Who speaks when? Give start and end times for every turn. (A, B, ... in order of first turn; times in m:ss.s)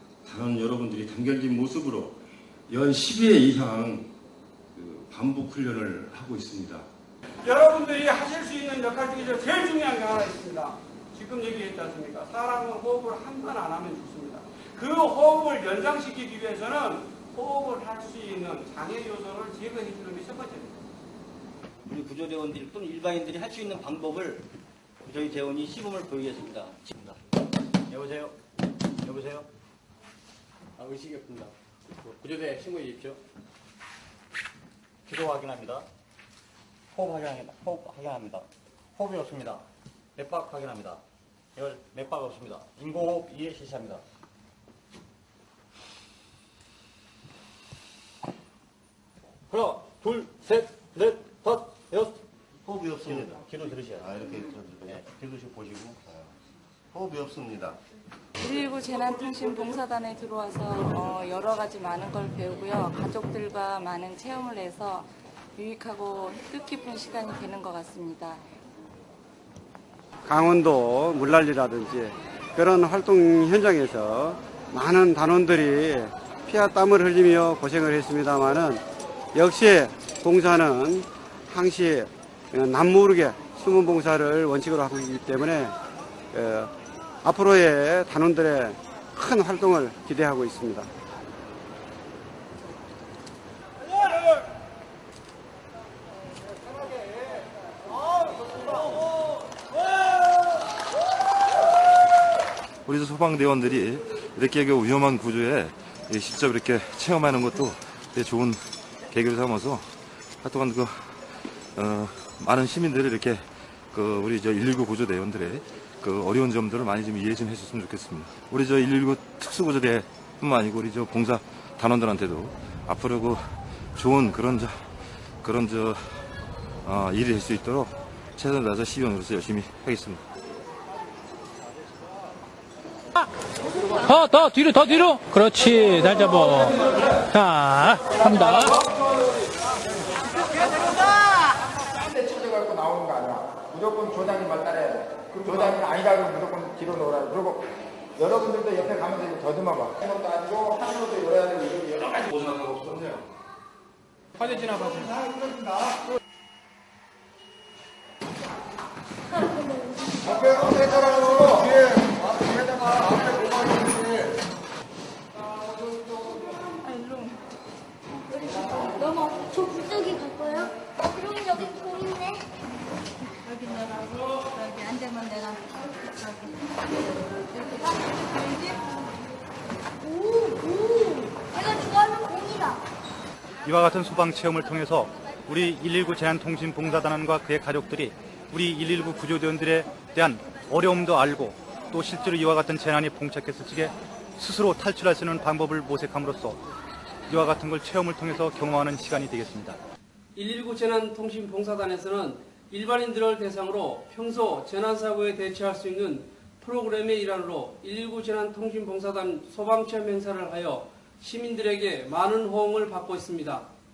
0:00.2-0:02.2 A
0:02.7-0:04.1 A
0:04.8-0:06.9 A
0:07.5-0:20.6 B
0:21.9-0:24.4 C
0:25.0-0:27.2 C
0:27.9-0:28.4 C
0:29.0-0:29.5 C
0:30.8-0:31.5 C
0:32.0-0:33.2 C
0:35.1-0:35.8 C
0:36.9-0:38.5 C
0:39.0-0:39.6 C
0:40.2-0:41.0 C
0:41.6-0:44.0 C
0:49.5-0:52.1 C
0:52.7-0:53.5 D
0:53.1-0:54.0 C
0:54.0-0:54.9 D
0:55.1-0:56.0 C
0:56.1-0:56.3 D
0:56.9-0:57.8 D
0:58.4-1:08.4 E
1:10.2-1:18.8 F
1:19.3-1:25.7 F
1:26.3-1:26.7 F
1:27.2-1:30.9 F
1:42.9-1:49.9 G
1:50.4-2:03.4 G
2:04.0-2:04.8 G
2:05.4-2:06.2 G
2:06.8-2:10.2 G
2:14.2-2:16.5 H
2:17.5-2:18.0 H
2:18.1-2:19.4 I
2:22.0-2:27.7 I
2:28.2-2:32.2 I
2:32.2-2:33.3 G
2:34.6-2:35.2 I
2:40.2-2:41.8 I
2:42.9-2:43.6 I
2:46.9-2:47.2 J
2:48.3-2:52.4 J
2:53.5-2:54.3 J
2:55.8-2:56.2 J
2:57.2-2:58.8 J
3:00.0-3:02.8 J
3:03.6-3:16.6 K
3:17.3-3:19.8 K
3:20.4-3:33.7 B